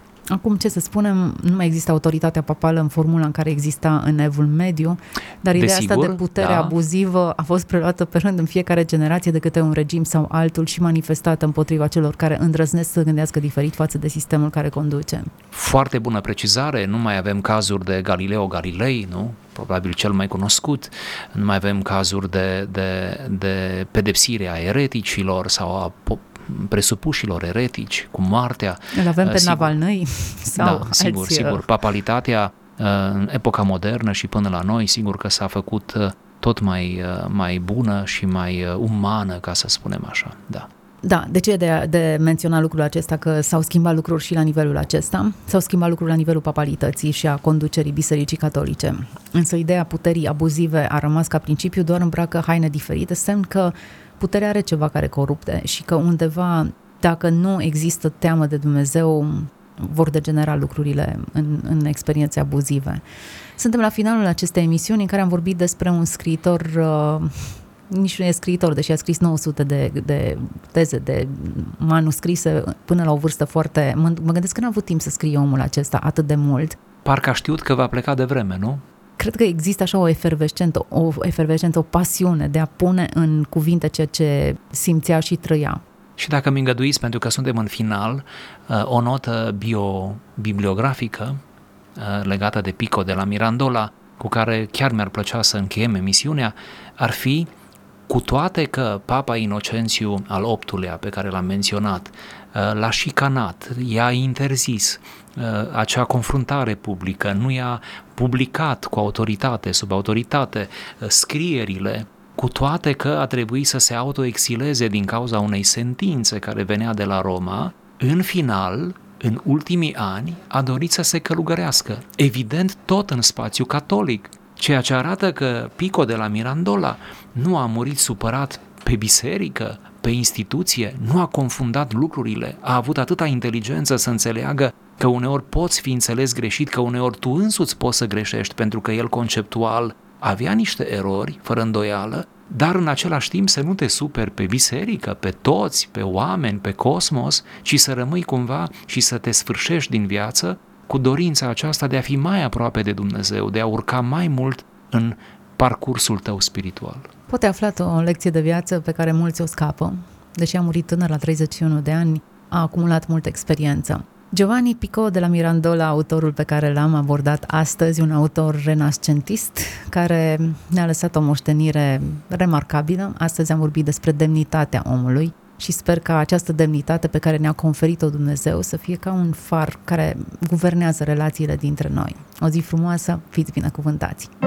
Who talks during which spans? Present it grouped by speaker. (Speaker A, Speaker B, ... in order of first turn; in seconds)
Speaker A: 0.3-15.3, 28.9-31.6, 41.0-63.0, 63.6-76.8, 79.2-85.8, 157.3-184.3
Speaker B: 5.5-6.7, 15.5-29.7, 30.6-40.7, 77.0-78.8, 86.2-91.4, 92.0-97.5, 98.1-157.1